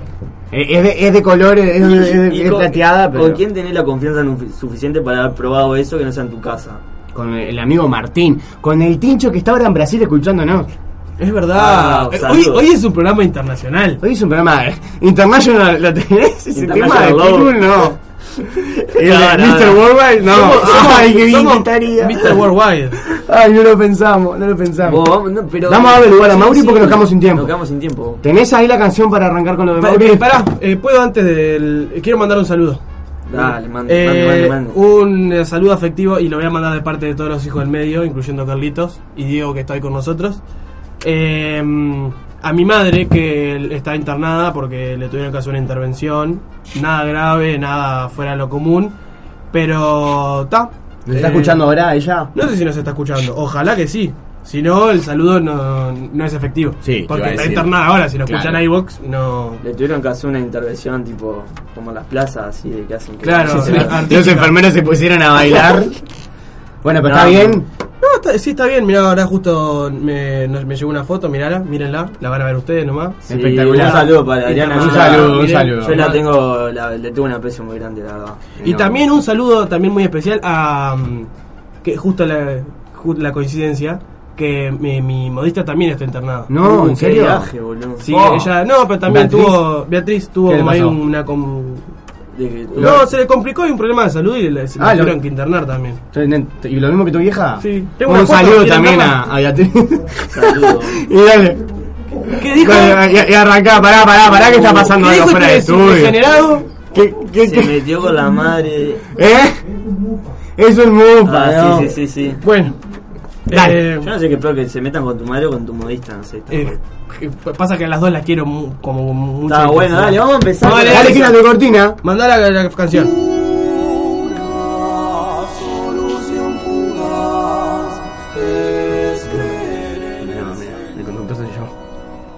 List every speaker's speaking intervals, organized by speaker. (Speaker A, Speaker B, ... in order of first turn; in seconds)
Speaker A: 0.5-3.4, 7.1-10.7, 14.0-22.4, 23.0-27.5, 28.2-30.4, 51.1-52.3, 56.8-58.6, 63.5-65.9, 66.8-67.7, 73.3-76.0, 78.6-79.0, 86.5-87.5, 88.1-89.7, 90.5-91.0, 92.8-93.0, 94.8-95.2, 96.1-101.6, 102.4-106.3, 106.9-107.8, 109.1-109.6, 110.6-112.0, 113.5-113.8, 120.8-122.0, 130.2-131.7
Speaker B: 1.8-6.8, 11.5-12.7, 16.5-17.7, 18.9-19.9, 24.9-28.2, 33.3-34.8, 59.6-64.1, 67.0-67.6, 73.3-78.5, 86.6-88.1, 92.3-93.0, 100.3-101.0, 104.4-104.9, 107.4-109.1, 111.2-112.4, 114.0-116.8, 119.5-121.4
Speaker C: 11.2-14.0, 20.2-23.0, 29.8-32.8, 33.4-40.4, 41.0-49.0, 49.5-51.7, 52.3-59.6, 63.2-64.6, 68.0-76.2, 78.6-81.3, 81.8-86.5, 88.0-91.8, 92.8-96.0, 97.6-99.2, 102.3-103.1, 105.0-106.7, 112.4-112.8, 113.5-114.1, 116.5-121.3, 122.0-123.2